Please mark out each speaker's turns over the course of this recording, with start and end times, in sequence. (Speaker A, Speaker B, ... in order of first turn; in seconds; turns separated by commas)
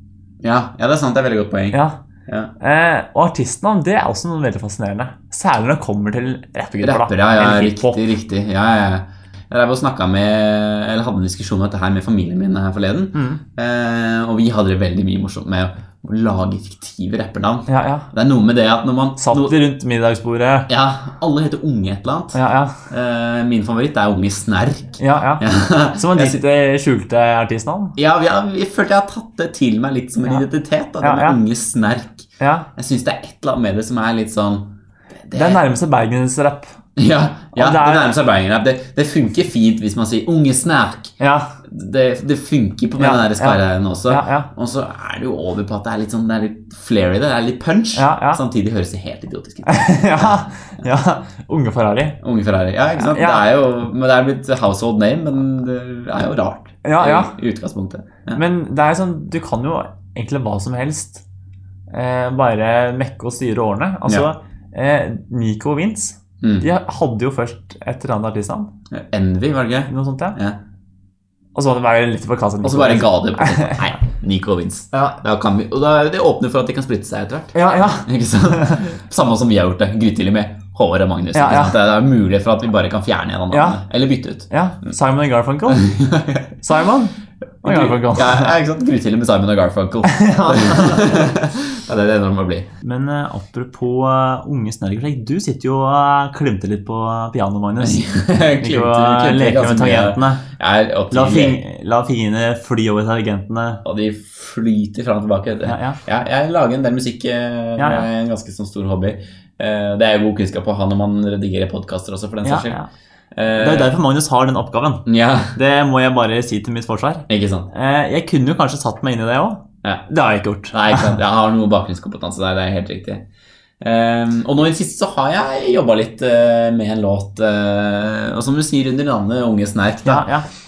Speaker A: 0.4-2.5, Speaker B: 1.7-2.0, Speaker B: 2.6-8.1, Speaker A: 6.8-19.6, Speaker B: 13.1-13.4, Speaker B: 17.7-18.1, Speaker B: 19.2-20.7, Speaker A: 20.7-22.4, Speaker B: 22.3-22.8, Speaker A: 22.9-26.4, Speaker B: 25.0-28.0, Speaker A: 28.0-34.7, Speaker B: 31.0-31.4, Speaker B: 32.4-32.7, Speaker A: 35.2-35.6, Speaker B: 35.3-36.8, Speaker A: 37.0-50.9, Speaker B: 37.5-38.1, Speaker B: 41.2-41.6, Speaker B: 43.0-44.5, Speaker B: 47.9-48.4, Speaker B: 49.6-52.2, Speaker A: 52.2-58.4, Speaker B: 53.0-53.4, Speaker B: 56.8-57.3, Speaker B: 58.3-61.2, Speaker B: 61.9-68.7, Speaker A: 66.4-66.7, Speaker A: 68.9-70.6, Speaker B: 69.9-70.4, Speaker B: 71.5-73.9, Speaker A: 72.6-84.5, Speaker B: 74.9-75.2, Speaker B: 77.5-78.8, Speaker B: 81.3-81.8, Speaker B: 83.5-83.8, Speaker B: 84.5-85.9, Speaker A: 85.7-86.5, Speaker B: 86.6-88.5, Speaker A: 87.6-92.7, Speaker B: 90.0-91.3, Speaker B: 92.8-98.0, Speaker A: 97.8-101.6, Speaker B: 98.6-100.5, Speaker B: 101.1-103.8, Speaker A: 103.8-112.8, Speaker B: 105.6-106.0, Speaker B: 107.8-108.0, Speaker B: 112.4-112.9, Speaker A: 113.3-113.9, Speaker B: 113.5-121.1, Speaker A: 115.1-115.5, Speaker A: 117.3-117.7, Speaker A: 120.7-123.2, Speaker A: 123.8-130.3, Speaker B: 130.0-130.5